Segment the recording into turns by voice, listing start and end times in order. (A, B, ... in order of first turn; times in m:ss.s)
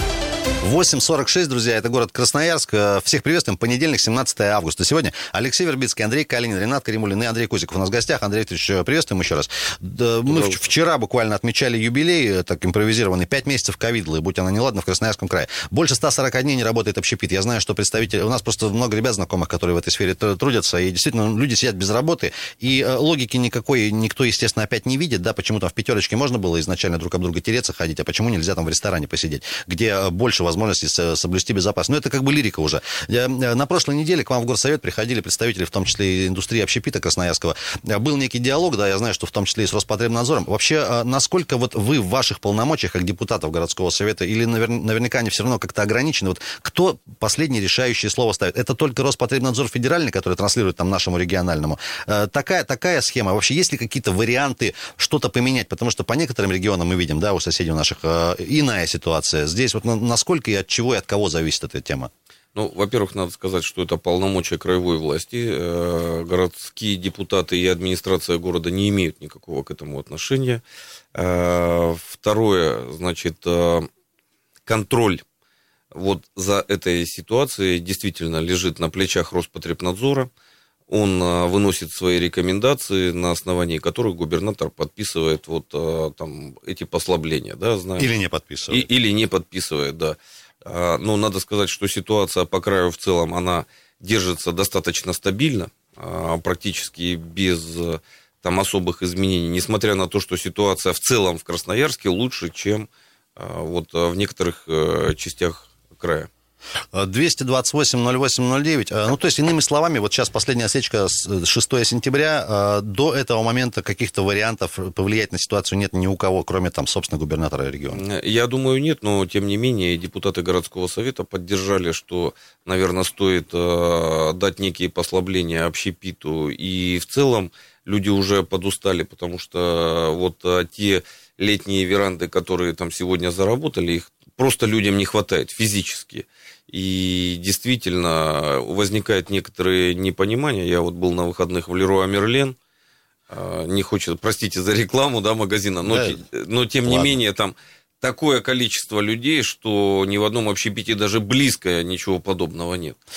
0:00.6-1:02.1 A
0:10.3-0:10.6 B
1:02.6-1:10.6 B
1:11.2-1:13.9 B
1:14.7-1:15.2 B
1:15.9-1:20.3 B
1:20.9-1:28.1 B
1:28.0-1:28.9 A
1:28.7-1:46.3 B
1:46.9-1:58.0 A
1:57.9-2:22.6 B
2:23.3-2:33.0 B
2:25.9-2:26.2 A
2:26.8-2:27.2 A